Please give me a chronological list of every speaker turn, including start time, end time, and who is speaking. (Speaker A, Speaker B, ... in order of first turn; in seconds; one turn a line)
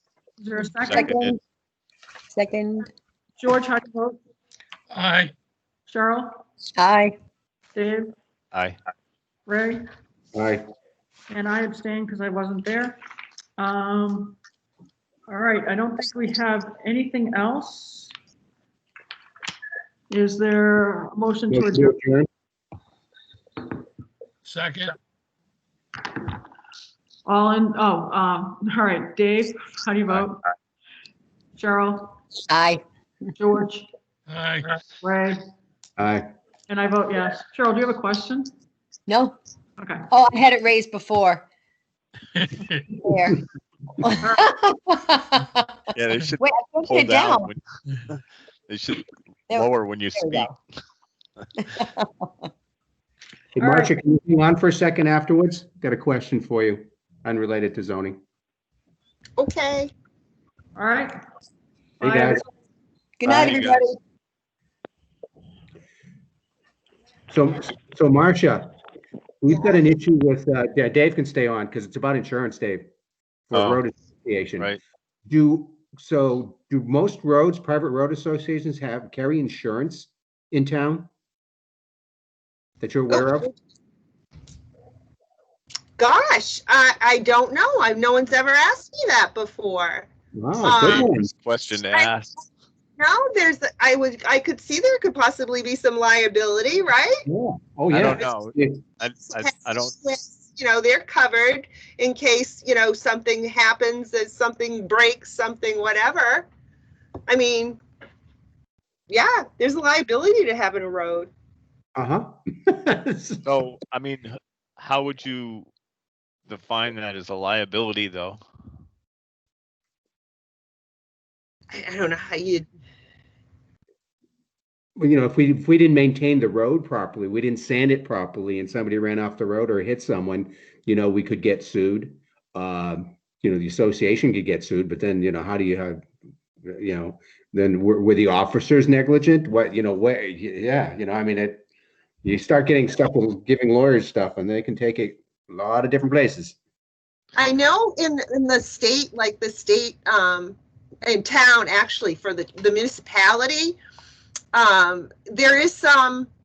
Speaker A: 0.4-1.1
Speaker B: 0.8-1.4
Speaker C: 0.9-1.4
Speaker C: 2.3-2.9
Speaker A: 3.4-4.2
Speaker D: 4.9-5.3
Speaker A: 5.9-6.4
Speaker C: 6.7-7.2
Speaker A: 7.7-8.1
Speaker A: 9.4-9.8
Speaker E: 10.3-10.6
Speaker A: 11.3-13.0
Speaker A: 13.6-14.4
Speaker A: 15.3-18.1
Speaker A: 20.1-22.0
Speaker E: 21.5-22.3
Speaker D: 24.4-24.9
Speaker A: 27.2-30.5
Speaker A: 31.6-32.1
Speaker C: 32.5-32.8
Speaker A: 33.4-33.9
Speaker D: 34.3-34.8
Speaker A: 35.0-35.5
Speaker E: 36.0-36.3
Speaker A: 36.7-38.5
Speaker C: 39.1-39.4
Speaker A: 39.8-40.0
Speaker C: 40.1-41.4
Speaker D: 42.5-42.8
Speaker C: 43.0-43.4
Speaker C: 44.0-45.7
Speaker B: 45.9-50.6
Speaker C: 46.4-47.5
Speaker C: 49.5-50.5
Speaker C: 51.7-52.1
Speaker E: 53.5-58.2
Speaker A: 53.6-53.9
Speaker F: 59.4-59.9
Speaker A: 60.8-61.1
Speaker A: 62.0-62.5
Speaker E: 62.0-62.4
Speaker C: 63.2-64.0
Speaker B: 63.2-63.9
Speaker E: 67.3-68.7
Speaker E: 69.4-72.9
Speaker E: 73.5-74.7
Speaker B: 73.5-73.8
Speaker E: 75.3-81.1
Speaker E: 82.8-83.5
Speaker F: 86.0-90.1
Speaker E: 90.3-91.3
Speaker F: 90.6-91.1
Speaker B: 90.8-92.4
Speaker F: 93.0-97.2
Speaker E: 97.2-98.8
Speaker B: 97.9-99.9
Speaker F: 99.3-106.5
Speaker F: 107.3-107.8
Speaker F: 109.1-111.3
Speaker E: 111.9-113.5
Speaker B: 113.4-115.7
Speaker B: 116.5-118.4
Speaker F: 121.7-122.7
Speaker E: 125.0-136.1
Speaker E: 136.7-141.6
Speaker E: 142.2-146.6
Speaker F: 147.4-153.8
Speaker F: 154.5-156.3